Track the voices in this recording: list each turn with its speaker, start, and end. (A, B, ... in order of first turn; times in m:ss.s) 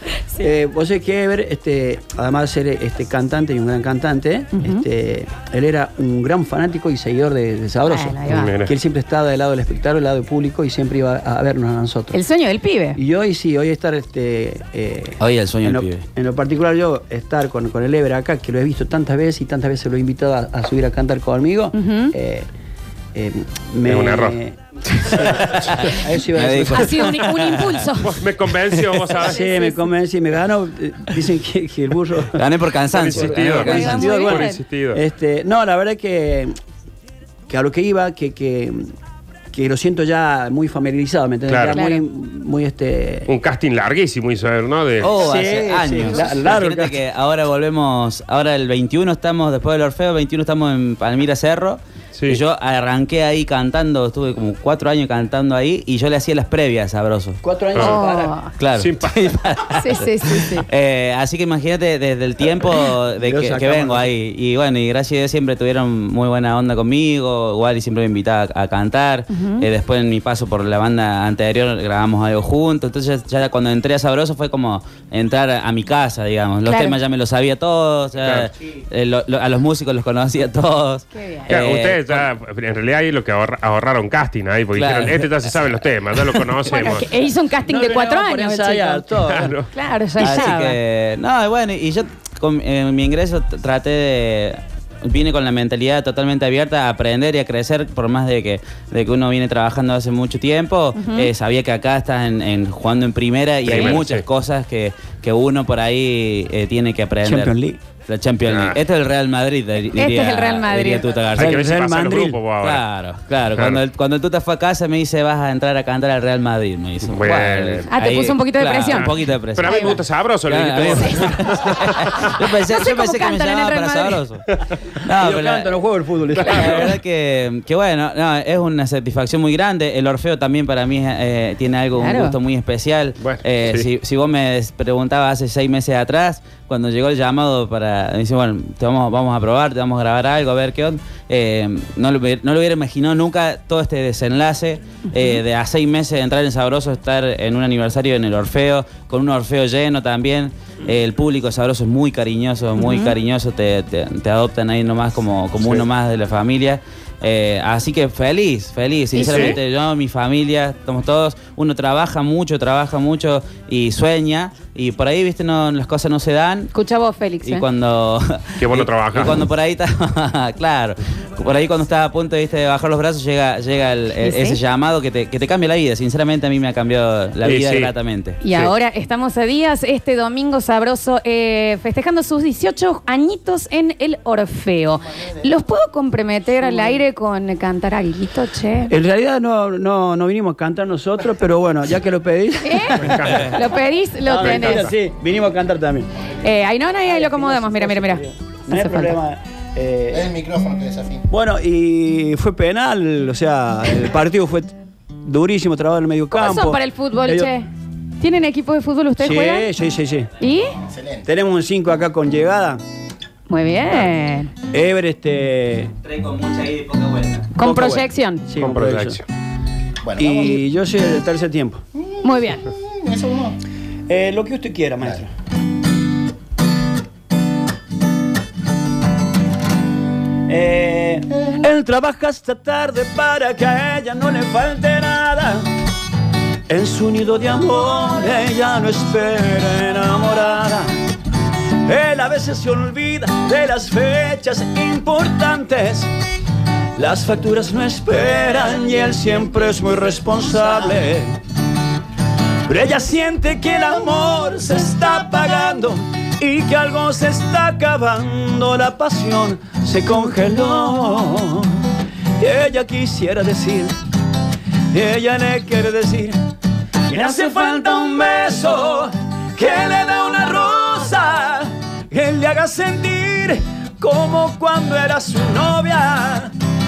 0:00.4-0:12.2 A
0:04.5-0:04.8 B
0:07.8-0:08.6 B
0:08.3-0:08.7 C
0:12.1-0:13.0 B
0:12.9-0:22.4 A
0:15.2-0:16.0 D
0:21.7-0:22.1 B
0:23.1-0:27.1 A
0:23.8-0:24.4 C
0:25.1-0:27.6 D
0:26.7-0:28.2 B
0:28.0-0:29.3 C
0:29.2-0:29.9 B
0:29.2-0:32.4 A
0:32.4-0:34.2 D
0:32.9-0:35.0 C
0:33.1-0:36.5 A
0:33.6-0:34.6 B
0:37.5-0:38.9 A
0:39.5-0:43.3 A
0:41.5-0:41.8 C
0:41.7-0:42.0 B
0:43.3-0:45.2 C
0:45.0-0:57.4 D
0:45.1-0:47.0 A
0:52.1-0:52.4 C
0:57.4-0:58.3 A
0:57.7-0:58.0 C
0:57.8-0:58.5 B
0:58.6-1:22.2 D
0:58.8-0:59.2 C
0:59.8-1:00.7 B
1:03.2-1:04.1 A
1:09.3-1:09.7 B
1:16.6-1:17.0 B
1:18.2-1:18.5 C
1:21.1-1:21.5 B
1:21.5-1:27.1 C
1:24.7-1:25.5 D
1:26.2-1:26.8 D
1:26.7-1:29.1 B
1:27.6-1:29.6 A
1:29.2-1:29.6 C
1:29.7-1:30.8 B
1:30.2-1:51.7 D
1:41.0-1:41.3 B
1:43.6-1:44.2 C
1:47.2-1:47.8 A
1:48.4-1:48.8 C
1:49.9-1:51.1 B
1:51.3-1:52.8 C
1:51.4-1:52.4 A
1:52.6-2:04.4 D
1:53.5-1:53.8 C
1:57.0-1:57.9 C
1:57.9-2:00.0 B
1:58.9-2:01.9 C
2:02.4-2:04.2 B
2:05.0-2:06.9 A
2:05.1-2:05.7 D
2:06.4-2:46.7 D
2:06.4-2:06.7 C
2:12.0-2:12.4 B
2:13.2-2:13.9 C
2:25.1-2:25.4 B
2:32.8-2:33.2 B
2:35.6-2:35.8 C
2:39.1-2:39.6 B
2:39.2-2:39.6 C
2:46.7-2:47.6 B
2:47.4-2:58.4 D
2:48.6-2:49.4 C
2:54.2-2:54.6 B
2:57.4-2:57.9 C
2:58.4-3:08.9 B
3:06.6-3:07.0 A
3:08.9-3:13.6 A
3:12.6-3:14.9 B
3:13.0-3:13.6 C
3:14.2-3:16.3 A
3:14.4-3:14.9 C
3:16.4-3:19.2 B
3:17.0-3:20.3 A
3:20.1-3:21.2 E
3:21.3-3:27.5 A
3:26.3-3:27.7 B
3:28.2-3:29.7 B
3:29.2-3:30.3 A
3:30.4-3:30.7 B
3:30.9-3:31.3 E
3:31.2-3:32.8 A
3:33.5-3:34.5 B
3:34.7-3:35.9 A
3:36.0-3:37.5 D
3:37.6-3:38.4 B
3:37.6-3:39.2 A
3:38.6-3:39.2 C
3:40.0-3:40.6 E
3:40.2-3:41.8 A
3:42.0-3:43.6 E
3:42.2-3:42.6 B
3:44.1-3:45.3 A
3:50.5-3:55.6 A
3:56.7-4:00.9 A
4:01.7-4:06.1 A
4:07.0-4:11.4 A
4:12.6-4:21.8 A
4:22.4-4:23.9 A
4:24.9-4:26.4 A
4:27.0-4:36.5 A